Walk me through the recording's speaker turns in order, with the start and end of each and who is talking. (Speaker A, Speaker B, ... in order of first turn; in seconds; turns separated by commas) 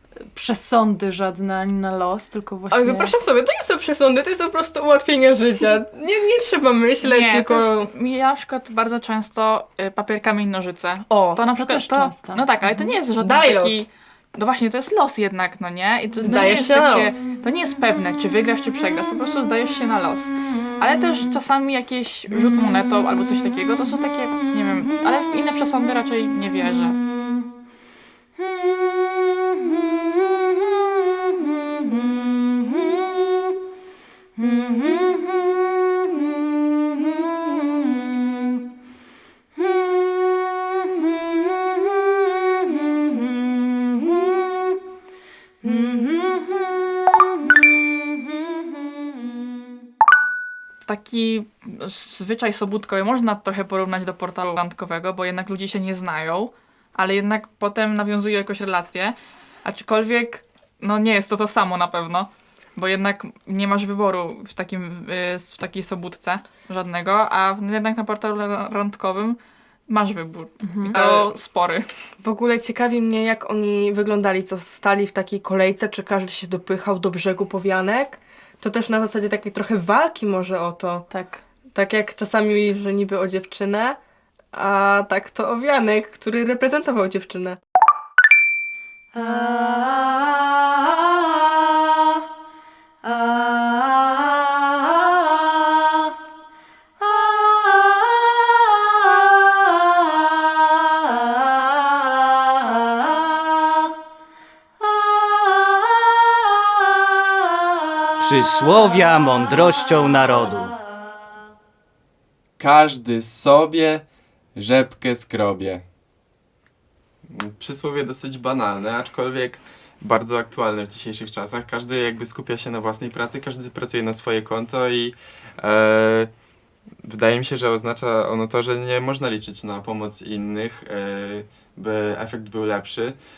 Speaker A: 0.3-3.1, Speaker B: 2.7-7.9, Speaker C: 7.0-27.0, Speaker A: 11.3-12.8, Speaker B: 13.1-13.9, Speaker B: 16.2-17.1, Speaker C: 50.9-71.9, Speaker A: 70.6-71.0, Speaker B: 70.9-71.3, Speaker B: 72.2-81.0, Speaker A: 81.1-81.4, Speaker B: 81.7-84.0, Speaker B: 84.5-87.6, Speaker D: 108.2-110.7, Speaker E: 112.6-115.8, Speaker E: 117.3-126.3, Speaker E: 127.0-133.2